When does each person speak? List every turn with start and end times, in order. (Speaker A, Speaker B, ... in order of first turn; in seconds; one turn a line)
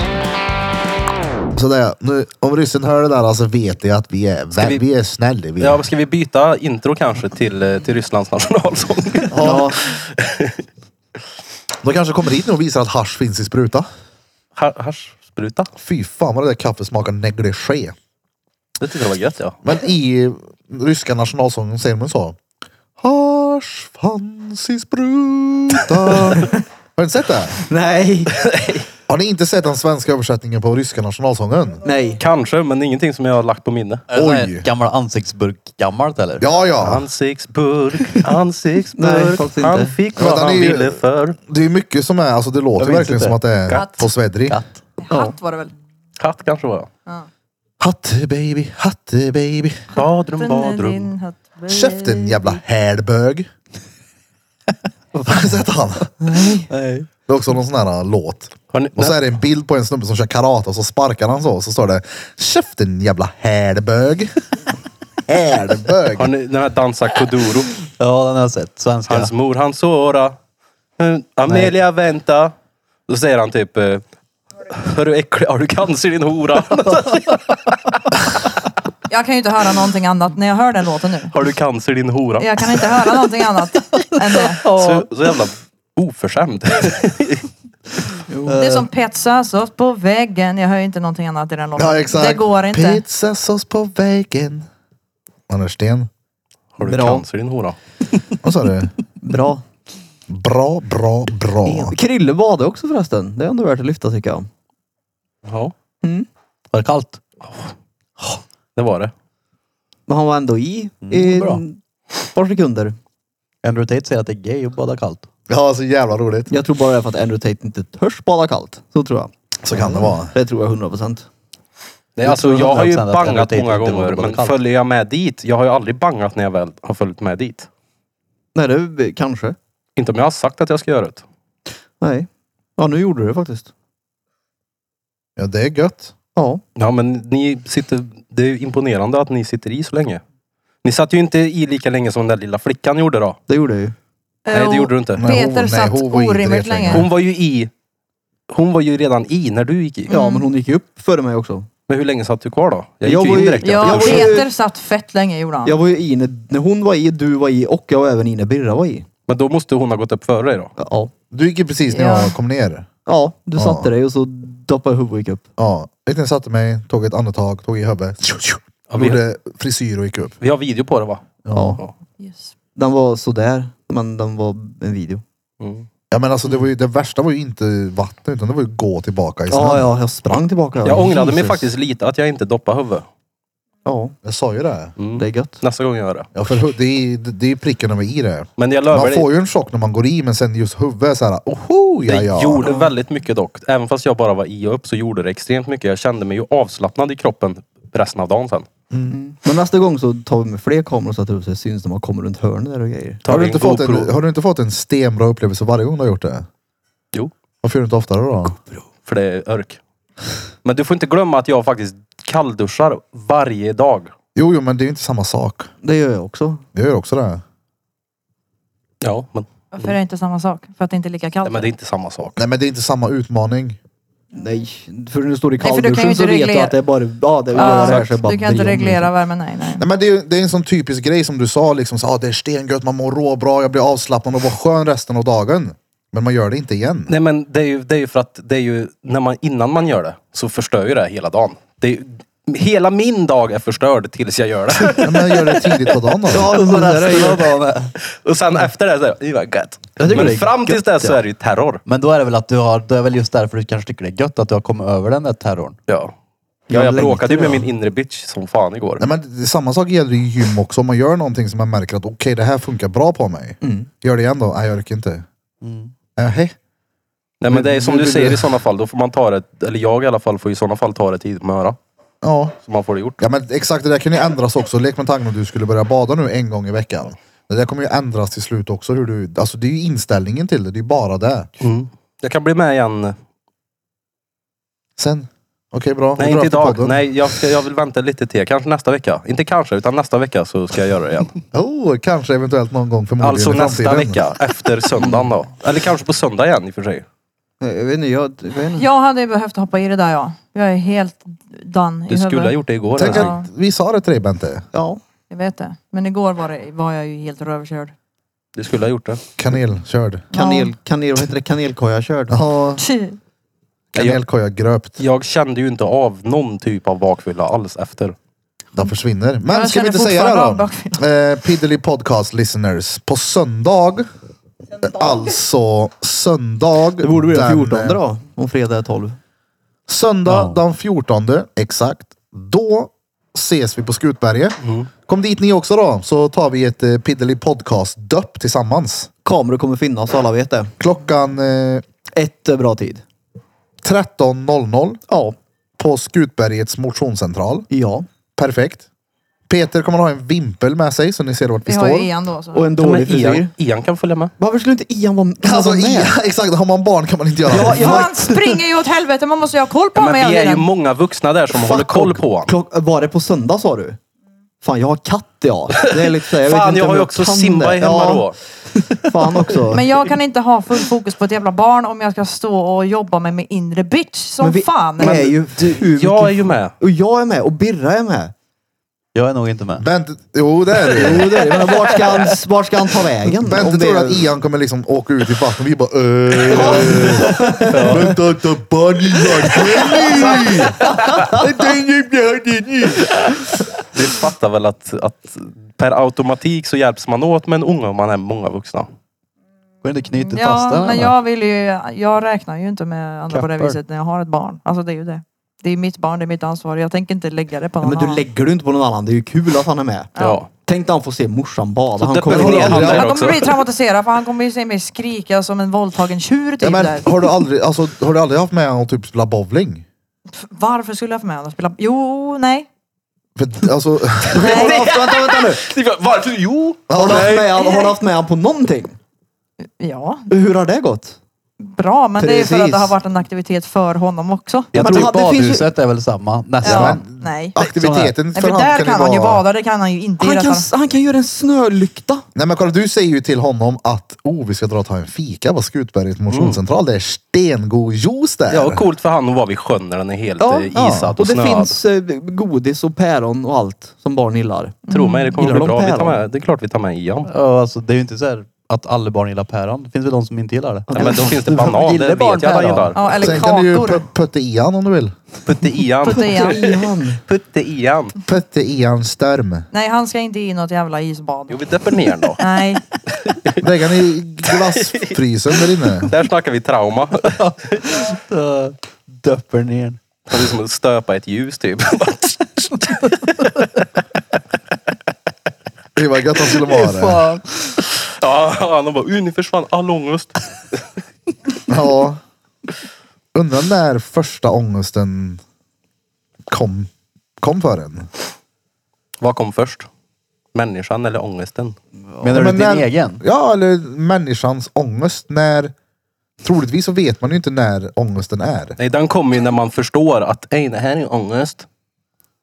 Speaker A: 1.5-5.8
Speaker B: 4.5-4.8
Speaker B: 5.6-10.6
Speaker A: 9.3-9.7
Speaker C: 9.3-9.8
Speaker A: 11.8-13.9
Speaker B: 14.6-15.7
Speaker A: 15.8-17.9
Speaker B: 18.8-19.6
Speaker A: 19.6-22.4
Speaker A: 23.0-27.6
Speaker C: 27.7-28.4
Speaker B: 28.4-28.8
Speaker A: 29.1-31.8
Speaker C: 31.8-32.2
Speaker B: 32.2-34.0
Speaker D: 34.1-36.4
Speaker A: 34.1-34.6
Speaker A: 36.4-37.0
Speaker B: 36.8-41.4
Speaker C: 39.0-39.9
Speaker A: 40.1-44.6
Speaker D: 42.8-43.4
Speaker E: 43.7-44.1
Speaker E: 45.0-45.7
Speaker C: 45.1-45.3
Speaker B: 46.2-46.9
Speaker A: 47.8-49.9
Speaker B: 49.9-51.1
Speaker E: 49.9-52.6
Speaker A: 51.7-53.5
Speaker C: 55.1-55.5
Speaker A: 55.2-56.1
Speaker C: 56.2-56.7
Speaker B: 56.7-57.0
Speaker A: 57.3-64.3
Speaker B: 58.7-59.2
Speaker A: 65.3-66.3
Speaker B: 66.1-67.8
Speaker D: 68.0-69.3
Speaker B: 69.1-70.3
Speaker B: 71.0-72.5
Speaker B: 73.1-74.0
Speaker B: 74.7-78.4
Speaker E: 79.1-81.3
Speaker B: 81.3-83.2
Speaker E: 82.4-84.7
Speaker B: 84.6-87.5
Speaker C: 84.7-85.0
Speaker C: 88.3-88.8
Speaker E: 88.5-93.0
Speaker A: 91.8-94.7
Speaker A: 95.5-96.1
Speaker B: 96.8-97.8
Speaker C: 96.8-97.2
Speaker A: 98.4-98.9
Speaker C: 99.2-99.6
Speaker A: 100.3-101.9
Speaker C: 101.7-104.5
Speaker B: 105.4-105.7
Speaker D: 106.7-107.2
Speaker B: 108.8-109.1
Speaker C: 110.1-111.8
Speaker D: 111.0-111.6
Speaker C: 112.3-112.9
Speaker D: 113.6-115.2
Speaker A: 115.5-116.5
Speaker C: 116.5-121.2
Speaker A: 119.6-120.3
Speaker B: 122.2-127.7
Speaker D: 122.2-124.5
Speaker C: 128.5-129.6
Speaker B: 129.9-131.2
Speaker C: 132.0-133.7
Speaker A: 135.4-136.1
Speaker C: 136.3-136.6
Speaker B: 136.8-140.2
Speaker B: 140.8-143.4
Speaker C: 143.5-143.9
Speaker E: 144.4-147.1
Speaker B: 144.5-145.3
Speaker A: 145.2-147.1
Speaker B: 146.9-147.7
Speaker B: 148.5-150.1
Speaker E: 150.1-150.5
Speaker C: 150.1-151.7
Speaker B: 151.9-154.4
Speaker C: 153.0-154.5
Speaker E: 153.6-155.8
Speaker C: 155.6-159.1
Speaker B: 159.3-160.7
Speaker C: 160.8-161.1
Speaker A: 161.3-162.9
Speaker E: 161.9-162.3
Speaker C: 163.1-165.4
Speaker A: 163.6-163.9
Speaker A: 165.6-170.4
Speaker B: 168.9-169.2
Speaker B: 170.4-171.2
Speaker A: 171.4-171.8
Speaker C: 171.5-171.8
Speaker E: 172.2-172.5
Speaker C: 172.8-175.2
Speaker B: 175.6-175.9
Speaker A: 176.1-179.9
Speaker C: 179.5-181.7
Speaker B: 180.8-183.1
Speaker C: 183.8-184.2
Speaker A: 184.2-184.9
Speaker B: 185.0-186.3
Speaker C: 185.2-185.6
Speaker A: 186.3-192.7
Speaker B: 188.6-189.3
Speaker B: 192.0-198.7
Speaker C: 192.6-192.9
Speaker A: 198.9-199.2
Speaker C: 199.1-203.2
Speaker B: 203.2-204.1
Speaker A: 203.2-206.4
Speaker A: 207.6-208.6
Speaker B: 209.0-209.8
Speaker B: 210.6-214.1
Speaker A: 214.3-215.7
Speaker C: 215.8-216.6
Speaker A: 216.7-217.4
Speaker B: 219.0-219.9
Speaker E: 219.7-221.7
Speaker B: 221.4-222.4
Speaker A: 222.4-223.8
Speaker C: 224.3-229.1
Speaker E: 225.6-226.7
Speaker B: 227.5-228.1
Speaker E: 227.5-229.8
Speaker A: 229.8-237.1
Speaker B: 237.1-245.3
Speaker A: 245.0-246.6
Speaker C: 246.3-247.6
Speaker D: 246.4-247.9
Speaker B: 248.1-251.8
Speaker C: 250.0-251.2
Speaker D: 250.0-250.4
Speaker D: 251.8-255.8
Speaker B: 255.9-256.1
Speaker C: 256.7-257.7
Speaker B: 256.7-259.0
Speaker A: 259.0-265.2
Speaker C: 263.6-263.9
Speaker D: 265.6-265.9
Speaker A: 266.1-266.6
Speaker B: 267.4-271.8
Speaker A: 267.5-268.5
Speaker A: 272.2-272.5
Speaker B: 272.6-273.2
Speaker A: 273.2-281.5
Speaker B: 281.6-283.1
Speaker A: 285.0-287.0
Speaker B: 286.2-291.3
Speaker A: 291.5-294.2
Speaker B: 293.2-297.0
Speaker C: 295.0-295.3
Speaker C: 297.6-298.9
Speaker E: 298.8-303.5
Speaker B: 302.1-303.4
Speaker A: 303.0-304.7
Speaker C: 304.7-305.0
Speaker E: 305.3-307.9
Speaker B: 308.5-309.2
Speaker A: 309.4-310.3
Speaker C: 310.3-312.4
Speaker E: 310.3-310.7
Speaker A: 312.3-312.8
Speaker E: 312.8-313.2
Speaker A: 313.9-315.0
Speaker B: 313.9-314.2
Speaker B: 315.0-318.1
Speaker A: 318.7-324.1
Speaker E: 319.5-321.0
Speaker A: 324.8-328.0
Speaker C: 327.0-329.2
Speaker A: 329.9-339.1
Speaker D: 330.3-330.6
Speaker B: 334.6-334.9
Speaker C: 339.2-340.7
Speaker A: 340.8-341.8
Speaker C: 342.1-343.0
Speaker A: 343.8-345.0
Speaker C: 345.1-345.4
Speaker A: 345.8-347.7
Speaker C: 347.7-348.1
Speaker A: 348.4-348.9
Speaker A: 349.5-352.1
Speaker E: 351.6-352.7
Speaker C: 352.5-353.5
Speaker B: 352.8-354.3
Speaker C: 354.4-356.1
Speaker A: 355.4-358.1
Speaker C: 357.5-358.5
Speaker E: 357.6-360.7
Speaker B: 359.9-362.5
Speaker C: 361.5-364.0
Speaker C: 364.6-368.2
Speaker B: 366.0-368.4
Speaker C: 368.9-369.8
Speaker E: 369.7-375.2
Speaker C: 374.4-378.3
Speaker B: 375.0-376.7
Speaker D: 379.1-379.8
Speaker A: 379.8-381.3
Speaker C: 380.9-384.3
Speaker A: 383.4-393.2
Speaker B: 386.5-388.1
Speaker C: 386.5-388.1
Speaker C: 389.3-391.3
Speaker B: 393.9-398.9
Speaker D: 399.8-401.1
Speaker E: 400.2-408.2
Speaker D: 403.3-403.8
Speaker C: 407.8-410.1
Speaker E: 410.1-410.4
Speaker B: 410.2-410.5
Speaker C: 410.6-413.0
Speaker B: 412.0-413.5
Speaker A: 412.3-413.1
Speaker E: 412.8-417.1
Speaker A: 416.6-419.8
Speaker E: 420.4-422.7
Speaker A: 423.4-424.6
Speaker C: 424.3-425.6
Speaker E: 424.4-424.8
Speaker B: 424.4-427.5
Speaker A: 426.9-427.3
Speaker C: 426.9-429.0
Speaker E: 427.3-427.9
Speaker E: 429.8-430.3
Speaker C: 430.3-431.2
Speaker E: 431.6-435.0
Speaker C: 432.2-432.9
Speaker D: 434.7-437.1
Speaker C: 434.8-435.7
Speaker E: 436.6-437.7
Speaker A: 436.6-439.4
Speaker D: 437.8-438.1
Speaker E: 438.3-440.7
Speaker C: 440.2-442.2
Speaker A: 442.3-448.8
Speaker B: 446.3-446.6
Speaker B: 448.5-451.7
Speaker C: 450.4-454.8
Speaker E: 454.9-455.4
Speaker B: 454.9-457.3
Speaker C: 455.4-456.2
Speaker D: 457.2-462.9
Speaker C: 460.9-462.9
Speaker B: 460.9-463.0
Speaker E: 462.9-464.0
Speaker A: 463.2-465.1
Speaker B: 465.4-468.2
Speaker E: 466.0-466.6
Speaker C: 466.1-467.2
Speaker A: 468.3-469.7
Speaker E: 469.7-472.8
Speaker B: 471.5-472.4
Speaker B: 473.1-473.6
Speaker A: 473.6-476.1
Speaker B: 474.5-475.1
Speaker B: 475.7-478.0
Speaker D: 477.2-480.0
Speaker B: 480.3-483.5
Speaker A: 485.9-487.3
Speaker D: 486.7-487.7
Speaker B: 487.9-490.8
Speaker A: 491.7-492.2
Speaker A: 493.3-495.4
Speaker A: 496.5-498.1
Speaker B: 499.2-499.9
Speaker B: 500.5-501.8
Speaker D: 502.2-503.2
Speaker A: 502.3-505.7
Speaker A: 506.4-508.8
Speaker B: 508.8-511.6